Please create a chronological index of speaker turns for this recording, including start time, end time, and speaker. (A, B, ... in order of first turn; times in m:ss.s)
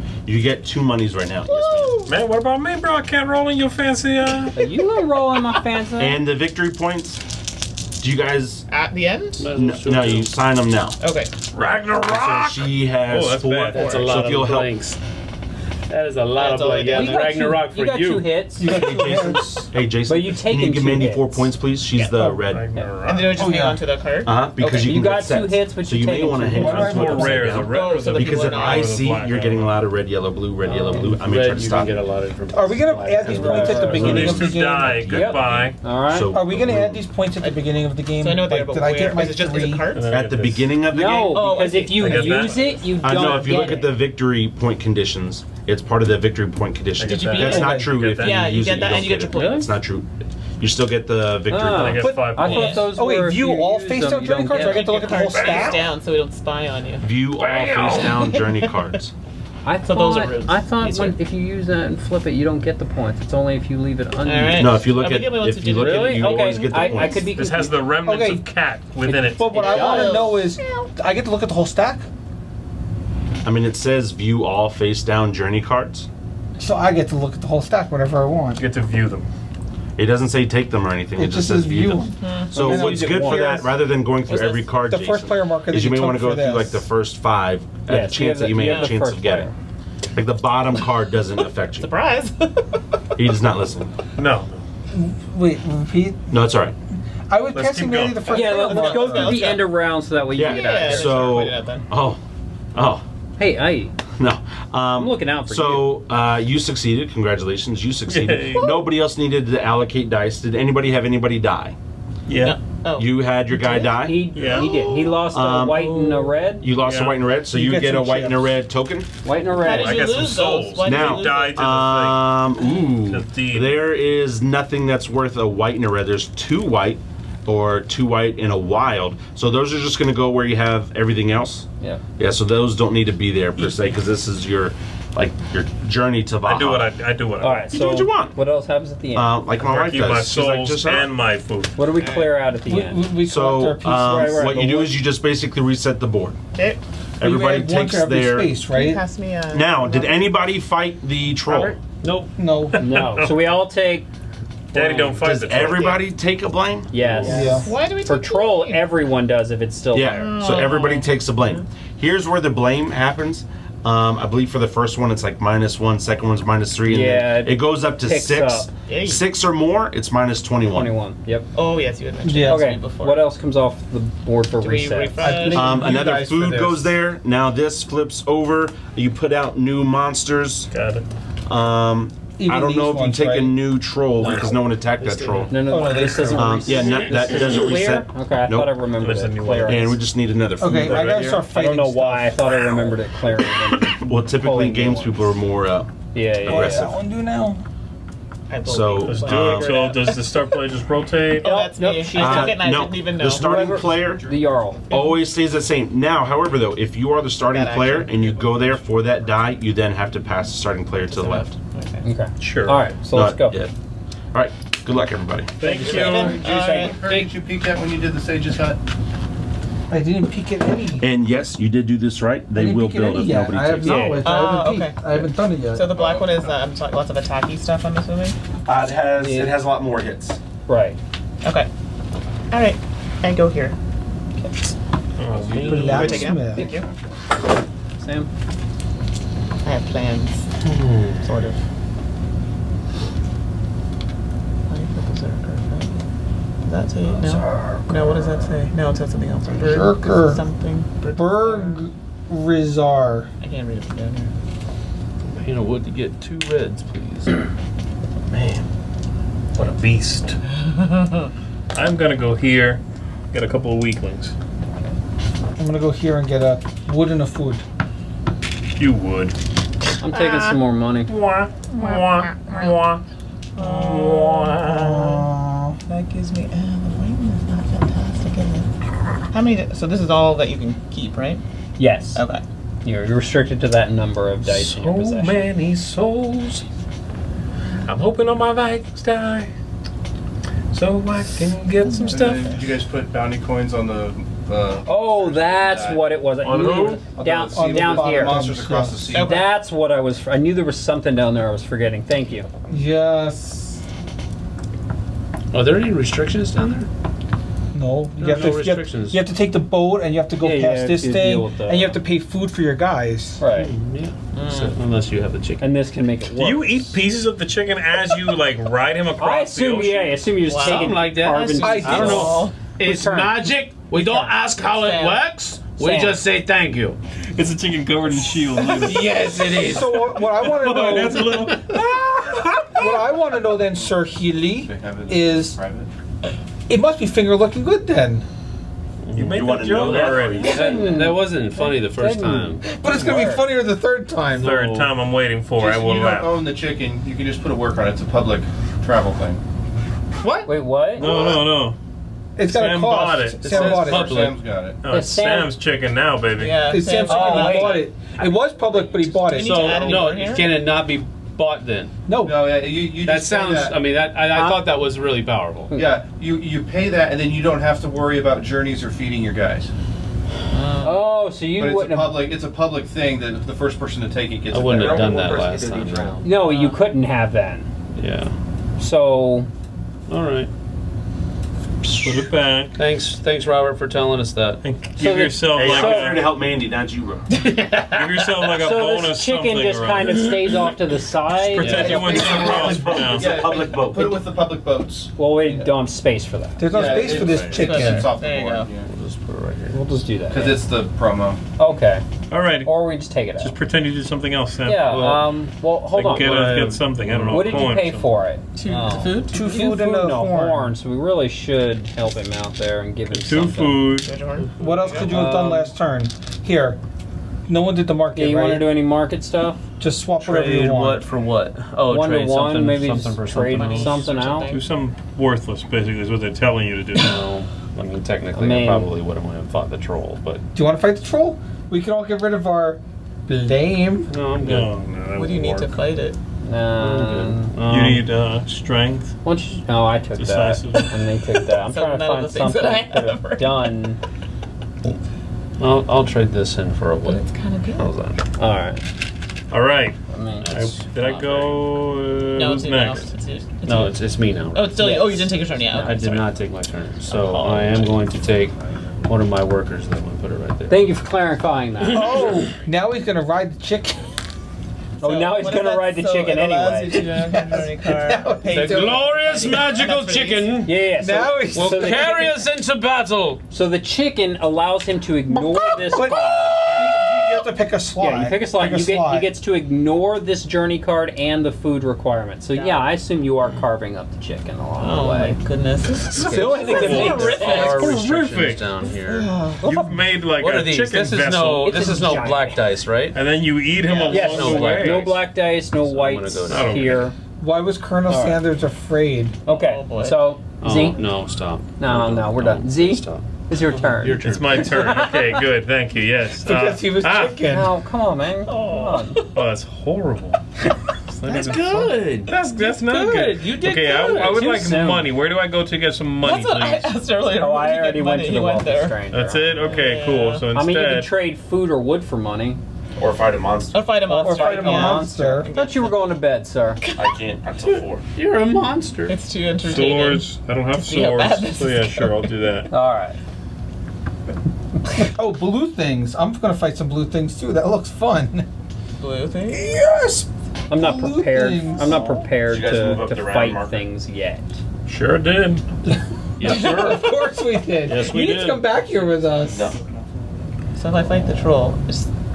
0:00.2-0:02.0 A
0:01.5-0:02.1 B
0:02.1-0:04.6 C
0:04.6-0:06.2 D
0:06.0-0:07.2 A
0:08.0-0:08.6 A
0:08.7-0:09.5 B
0:09.4-0:10.4 E
0:09.5-0:11.0 A
0:11.0-0:11.3 B
0:11.5-0:13.8 C
0:12.0-0:14.8 A
0:13.7-0:14.2 B
0:13.7-0:15.0 E
0:15.9-0:18.4 E
0:16.3-0:17.3 B
0:16.9-0:21.5 D
0:18.6-0:19.6 F
0:18.6-0:22.7 A
0:22.0-0:22.3 B
0:22.5-0:23.5 C
0:23.0-0:24.9 B
0:23.3-0:23.8 F
0:24.2-0:32.0 A
0:24.6-0:26.9 D
0:26.5-0:27.7 F
0:26.6-0:29.8 C
0:27.6-0:29.1 B
0:30.7-0:31.2 D
0:30.8-0:34.0 E
0:32.5-0:35.0 F
0:33.2-0:34.3 D
0:33.7-0:37.0 A
0:33.9-0:35.8 C
0:35.1-0:36.3 D
0:36.3-0:39.9 F
0:37.4-0:40.2 B
0:39.9-0:40.7 C
0:40.1-0:41.4 A
0:40.9-0:43.9 D
0:41.1-0:42.9 B
0:41.9-0:43.8 C
0:43.0-0:50.1 A
0:47.0-0:49.0 C
0:47.0-0:49.7 B
0:47.4-0:48.1 F
0:49.1-0:49.7 D
0:50.6-0:52.1 A
0:51.5-0:55.1 D
0:51.6-0:52.9 C
0:52.0-0:55.9 F
0:52.4-0:52.9 B
0:54.5-0:57.1 B
0:55.3-0:55.8 C
0:57.0-0:59.1 A
0:57.4-0:58.2 C
0:58.2-0:58.7 B
0:59.6-1:04.8 D
0:59.8-1:00.9 B
1:04.2-1:07.2 B
1:04.5-1:07.3 A
1:05.6-1:07.8 D
1:07.3-1:09.5 C
1:08.0-1:08.5 F
1:09.0-1:12.0 F
1:09.5-1:10.9 B
1:09.5-1:10.3 D
1:13.4-1:16.1 A
1:16.6-1:18.6 F
1:18.6-1:19.3 C
1:20.0-1:29.5 A
1:21.2-1:26.8 F
1:22.2-1:22.5 B
1:22.5-1:23.7 D
1:27.9-1:29.5 D
1:28.6-1:28.9 B
1:30.1-1:31.9 A
1:31.8-1:33.0 B
1:33.2-1:33.9 A
1:34.2-1:34.6 C
1:34.9-1:36.4 F
1:36.3-1:36.7 A
1:37.3-1:39.5 F
1:37.5-1:38.4 C
1:38.3-1:39.7 B
1:38.3-1:41.4 D
1:40.3-1:41.8 B
1:40.3-1:42.2 A
1:42.7-1:43.0 A
1:43.4-1:43.9 D
1:44.2-1:51.8 A
1:45.0-1:45.9 D
1:48.1-1:48.7 C
1:52.3-1:52.6 C
1:52.4-1:53.1 B
1:53.0-1:54.2 A
1:53.6-1:56.6 D
1:54.3-1:54.7 C
1:54.4-1:55.3 B
1:55.3-1:59.1 A
1:56.8-1:57.2 C
1:57.5-1:58.6 F
1:59.2-2:00.1 D
1:59.5-2:01.6 B
1:59.6-2:03.8 C
2:00.8-2:11.7 A
2:12.2-2:16.9 A
2:16.4-2:17.7 C
2:17.4-2:19.4 D
2:17.7-2:18.4 A
2:19.1-2:21.1 A
2:19.6-2:21.8 C
2:21.8-2:23.0 D
2:22.0-2:22.3 B
2:22.6-2:24.9 F
2:23.2-2:26.4 A
2:23.8-2:24.9 D
2:27.2-2:28.6 A
2:27.2-2:29.0 F
2:28.7-2:30.1 B
2:29.5-2:31.8 A
2:31.4-2:31.8 C
2:32.0-2:34.1 D
2:32.4-2:32.8 F
2:32.7-2:33.3 C
2:34.7-2:35.2 D
2:34.7-2:36.0 C
2:35.2-2:37.3 A
2:36.9-2:40.3 D
2:37.2-2:38.9 B
2:37.3-2:37.7 F
2:39.9-2:50.9 A
2:40.1-2:41.1 B
2:46.9-2:48.7 D
2:48.9-2:49.2 B
2:50.7-2:51.4 D
2:51.5-2:53.3 B
2:52.2-2:52.7 F
2:52.4-2:55.6 D
2:54.6-2:55.9 B
2:55.2-2:56.9 F
2:55.5-3:00.7 A
3:00.7-3:01.0 C
3:01.4-3:05.5 A
3:02.4-3:03.7 F
3:04.2-3:05.5 E
3:05.5-3:10.0 D
3:05.5-3:07.1 F
3:06.2-3:08.7 A
3:09.0-3:10.0 C
3:09.6-3:11.4 A
3:10.6-3:12.4 F
3:10.8-3:11.4 C
3:11.5-3:15.3 D
3:13.8-3:16.9 A
3:16.1-3:16.9 D
3:16.5-3:17.6 F
3:18.5-3:20.2 B
3:18.6-3:19.9 A
3:19.0-3:21.5 C
3:21.3-3:24.0 B
3:21.4-3:24.8 D
3:22.1-3:24.2 A
3:24.0-3:24.3 G
3:24.9-3:25.2 B
3:24.9-3:31.5 A
3:27.5-3:28.3 B
3:31.1-3:32.0 B
3:32.0-3:33.6 D
3:32.4-3:32.9 C
3:33.1-3:33.7 A
3:34.3-3:35.6 A
3:35.6-3:36.4 C
3:35.6-3:37.0 B
3:36.0-3:38.8 G
3:36.4-3:36.8 D
3:36.6-3:37.3 E
3:39.9-3:41.1 F
3:41.0-3:44.2 A
3:42.5-3:46.0 F
3:43.8-3:44.3 D
3:44.2-3:48.4 B
3:45.9-3:46.5 G
3:48.6-3:50.4 A
3:49.2-3:49.6 D
3:50.7-3:51.0 D
3:52.5-3:53.7 B
3:54.4-3:54.7 D
3:55.2-3:56.4 C
3:55.3-3:56.9 G
3:55.7-3:56.8 F
3:55.8-3:56.9 B
3:58.0-3:58.3 D
3:59.6-4:00.5 B
4:00.6-4:01.4 E
4:01.2-4:01.6 B
4:04.7-4:06.0 B
4:06.6-4:11.8 B
4:09.6-4:10.4 F
4:11.1-4:13.3 F
4:13.4-4:14.3 B
4:15.2-4:17.5 E
4:18.3-4:18.6 C
4:19.5-4:20.4 C
4:20.5-4:21.3 B
4:21.7-4:22.8 C
4:23.3-4:24.3 C
4:25.6-4:27.6 F
4:28.8-4:29.3 C
4:30.0-4:31.1 D
4:30.1-4:30.6 B
4:31.1-4:33.0 C
4:31.7-4:32.7 B
4:33.6-4:35.2 B
4:33.6-4:35.1 C
4:34.7-4:35.8 F
4:35.9-4:38.7 B
4:39.3-4:41.4 B
4:41.8-4:42.2 D
4:42.1-4:42.4 B
4:42.8-4:45.5 D
4:44.4-4:46.6 C
4:47.8-4:49.5 C
4:50.7-4:52.6 C
4:51.8-4:52.5 B
4:52.1-4:56.0 G
4:54.8-4:58.4 D
4:56.4-4:57.0 C
4:57.2-4:59.3 G
4:57.5-4:59.2 F
4:59.1-4:59.4 B
4:59.2-5:02.5 D
5:02.7-5:03.8 F
5:05.5-5:06.9 E
5:07.7-5:13.4 F
5:08.2-5:09.2 E
5:10.4-5:12.0 D
5:13.4-5:13.7 D
5:13.5-5:15.8 E
5:14.3-5:14.8 B
5:15.6-5:16.9 D
5:16.4-5:20.2 C
5:19.2-5:24.3 D
5:20.4-5:22.6 B
5:20.6-5:27.0 E
5:21.6-5:22.5 F
5:24.6-5:25.2 B
5:25.8-5:26.2 D
5:27.3-5:29.2 C
5:28.6-5:30.1 E
5:29.5-5:35.6 F
5:29.7-5:33.2 C
5:34.6-5:35.9 G
5:36.7-5:38.2 F
5:39.0-5:42.6 E
5:39.1-5:40.6 C
5:39.3-5:40.8 A
5:40.4-5:43.4 D
5:42.6-5:44.6 F
5:44.3-5:46.3 C
5:44.3-5:44.8 E
5:45.6-5:49.4 G
5:50.2-5:51.4 F
5:50.4-5:51.1 D
5:51.0-5:51.8 C
5:52.4-5:54.2 F
5:52.4-5:53.7 C
5:53.4-5:54.4 E
5:53.4-5:54.8 G
5:54.8-5:56.7 C
5:54.9-5:55.5 D
5:56.3-5:58.0 B
5:56.7-6:00.0 F
5:57.0-5:57.9 D
5:59.3-6:01.9 E
5:59.3-6:00.6 B
6:02.0-6:02.7 F
6:02.2-6:03.8 G
6:03.0-6:05.7 E
6:04.3-6:04.6 D
6:05.7-6:09.7 G
6:10.5-6:11.0 B
6:10.8-6:12.2 D
6:11.5-6:16.3 G
6:14.5-6:16.7 E
6:16.2-6:17.7 D
6:18.0-6:18.3 E
6:18.8-6:19.5 D
6:20.1-6:20.5 E
6:21.8-6:24.6 E
6:22.0-6:22.8 C
6:24.6-6:26.4 C
6:25.0-6:26.2 D
6:25.5-6:27.3 A
6:27.9-6:30.3 C
6:28.5-6:32.4 D
6:31.4-6:33.4 C
6:31.6-6:32.4 E
6:31.9-6:33.0 F
6:31.9-6:35.8 G
6:32.4-6:34.2 A
6:35.2-6:37.0 D
6:36.6-6:38.1 F
6:36.7-6:38.9 G
6:37.2-6:37.6 C
6:37.5-6:38.7 B
6:38.8-6:39.8 E
6:39.7-6:40.6 D
6:40.3-6:41.4 G
6:41.6-6:42.0 D
6:42.3-6:42.7 C
6:42.6-6:43.5 D
6:43.4-6:45.1 C
6:44.6-6:46.5 D
6:44.8-6:45.3 E
6:45.9-6:48.0 C
6:46.1-6:47.7 E
6:47.3-6:53.8 D
6:48.5-6:49.3 B
6:49.3-6:50.7 F
6:53.1-6:54.1 C
6:53.9-6:55.1 B
6:54.6-6:56.8 F
6:54.6-6:54.9 E
6:55.1-6:55.7 D
6:57.5-6:58.7 F
6:58.1-6:59.6 D
6:59.8-7:01.1 F
7:00.2-7:04.1 E
7:01.9-7:04.5 D
7:03.4-7:04.6 B
7:04.5-7:07.2 C
7:07.0-7:10.4 E
7:08.3-7:08.9 D
7:10.5-7:14.1 F
7:14.1-7:14.7 E
7:14.4-7:15.8 C
7:15.1-7:16.2 B
7:16.4-7:17.5 D
7:16.8-7:18.1 E
7:17.6-7:19.1 C
7:19.2-7:24.0 D
7:20.2-7:20.8 C
7:20.7-7:23.7 B
7:25.6-7:28.2 E
7:27.0-7:27.9 B
7:28.4-7:28.8 D
7:29.5-7:33.1 C
7:30.1-7:30.5 D
7:30.4-7:31.6 B
7:32.4-7:36.4 B
7:33.6-7:40.9 E
7:37.1-7:37.9 B
7:40.7-7:42.2 D
7:41.9-7:44.1 F
7:45.0-7:46.9 D
7:45.0-7:50.6 B
7:46.9-7:49.6 F
7:48.5-7:50.8 E
7:50.6-7:52.3 D
7:50.8-7:52.3 F
7:51.5-7:53.4 E
7:53.5-7:56.7 D
7:55.3-7:59.3 F
7:56.7-7:57.3 B
7:58.0-8:05.4 D
8:02.5-8:02.9 B
8:04.8-8:08.0 B
8:06.1-8:08.7 C
8:06.1-8:09.3 E
8:06.2-8:08.0 D
8:08.8-8:09.7 B
8:09.6-8:10.0 D
8:09.6-8:11.9 C
8:10.3-8:13.2 E
8:11.6-8:12.6 D
8:11.7-8:12.3 B
8:13.1-8:15.2 C
8:13.8-8:14.2 B
8:14.0-8:17.0 E
8:14.1-8:17.2 D
8:16.5-8:17.0 C
8:17.4-8:19.4 F
8:18.1-8:18.4 D
8:19.4-8:21.0 D
8:19.5-8:20.3 B
8:20.6-8:25.1 E
8:21.8-8:25.1 D
8:24.2-8:27.4 C
8:26.4-8:27.7 F
8:27.5-8:29.2 D
8:28.4-8:29.4 B
8:29.3-8:30.4 C
8:31.2-8:37.0 C
8:31.3-8:34.5 E
8:31.6-8:31.9 F
8:33.9-8:35.1 D
8:36.2-8:39.0 B
8:37.4-8:39.6 D
8:39.1-8:41.1 C
8:39.6-8:40.4 B
8:40.5-8:42.6 D
8:43.0-8:43.9 A
8:43.7-8:46.0 B
8:44.1-8:45.5 F
8:44.2-8:46.8 D
8:46.8-8:47.1 B
8:47.0-8:48.0 A
8:47.6-8:49.2 E
8:49.1-8:52.3 B
8:49.6-8:52.7 C
8:52.7-8:53.2 D
8:54.9-8:58.5 F
8:59.0-8:59.8 B
8:59.5-9:02.2 F
9:00.7-9:04.4 D
9:01.8-9:02.2 B
9:02.4-9:03.9 A
9:04.8-9:05.6 C
9:05.9-9:09.7 F
9:06.4-9:07.2 E
9:06.4-9:07.0 B
9:07.8-9:08.9 C
9:09.4-9:09.8 A
9:10.7-9:12.1 B